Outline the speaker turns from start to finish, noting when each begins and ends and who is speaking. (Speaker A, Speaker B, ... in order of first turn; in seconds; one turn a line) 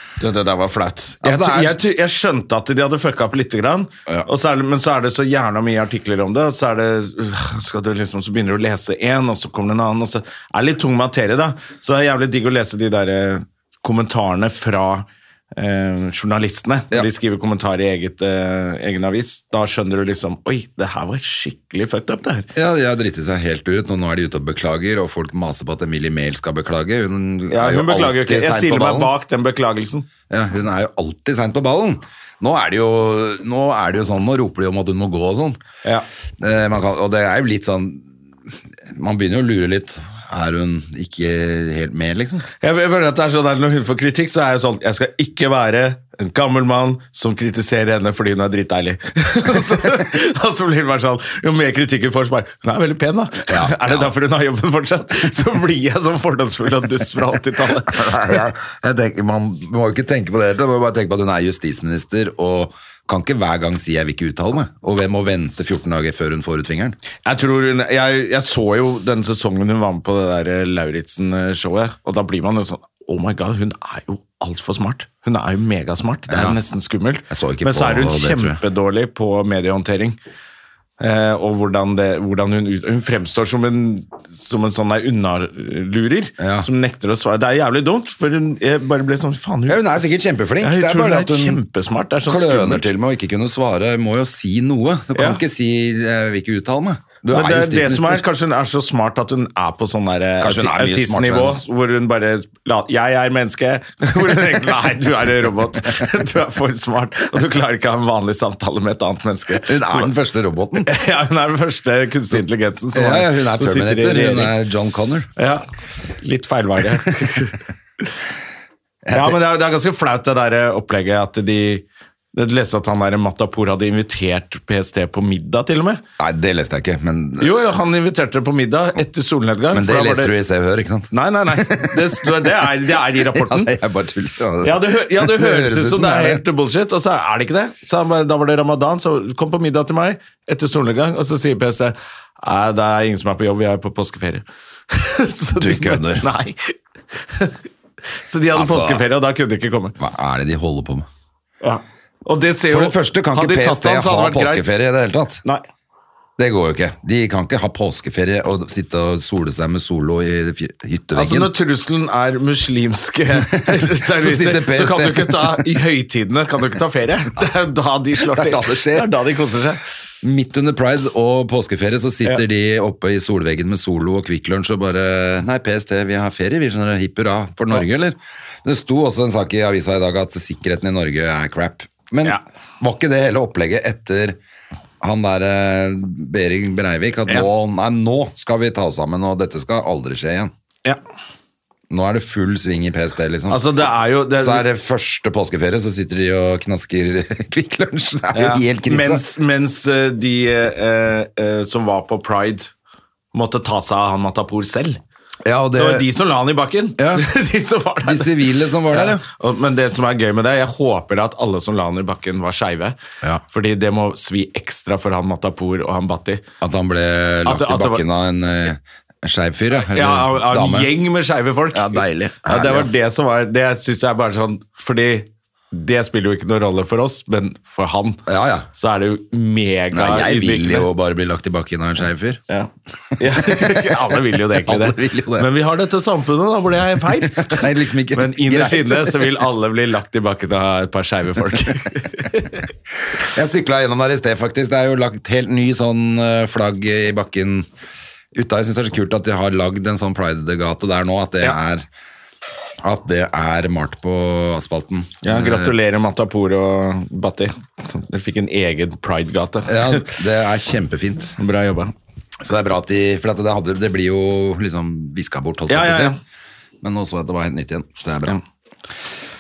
Speaker A: 0.2-22.5
Speaker B: 1.2-1.8
Speaker B: 22.5-29.1
Speaker A: 27.5-30.1
Speaker B: 30.3-35.6
Speaker B: 36.4-38.0
Speaker B: 38.9-42.5
Speaker A: 42.6-58.0
Speaker B: 53.5-54.1
Speaker B: 57.9-67.0
Speaker A: 67.2-80.2
Speaker B: 76.3-76.6
Speaker B: 77.3-78.6
Speaker A: 81.0-90.0
Speaker B: 86.4-86.7
Speaker B: 89.7-91.6
Speaker A: 90.6-92.9
Speaker B: 92.3-98.2
Speaker A: 95.1-95.4
Speaker A: 97.3-110.1
Speaker B: 100.4-101.6
Speaker B: 109.5-110.9
Speaker A: 110.8-114.5
Speaker B: 112.9-115.3
Speaker A: 115.4-115.6
Speaker A: 116.2-118.1
Speaker B: 119.0-119.4
Speaker A: 119.1-126.0
Speaker B: 126.2-127.6
Speaker A: 127.4-130.3
Speaker B: 129.7-136.4
Speaker A: 131.1-133.7
Speaker A: 134.6-147.6
Speaker B: 145.6-146.3
Speaker A: 148.2-149.9
Speaker B: 148.5-149.0
Speaker B: 150.0-151.1
Speaker A: 151.6-154.7
Speaker B: 152.7-155.4
Speaker B: 156.4-161.5
Speaker A: 161.1-169.8
Speaker B: 163.4-165.7
Speaker B: 168.2-169.1
Speaker B: 170.2-184.4
Speaker B: 185.0-190.5
Speaker B: 191.9-193.6
Speaker A: 193.5-194.7
Speaker B: 194.4-199.2
Speaker A: 198.3-202.7
Speaker A: 203.3-205.0
Speaker B: 205.4-206.1
Speaker A: 205.7-213.0
Speaker B: 207.0-207.2
Speaker B: 208.0-209.2
Speaker A: 213.5-216.4
Speaker B: 216.6-220.9
Speaker A: 217.4-218.0
Speaker A: 219.9-228.2
Speaker B: 221.7-222.9
Speaker B: 228.3-228.7
Speaker A: 228.7-230.9
Speaker B: 229.9-232.4
Speaker A: 232.5-242.6
Speaker B: 233.2-235.5
Speaker B: 237.2-239.4
Speaker B: 243.2-247.7
Speaker B: 248.3-251.8
Speaker B: 252.8-255.7
Speaker A: 255.2-260.2
Speaker B: 259.7-261.4
Speaker A: 261.4-261.9
Speaker B: 262.4-266.1
Speaker A: 265.7-266.2
Speaker B: 266.8-268.4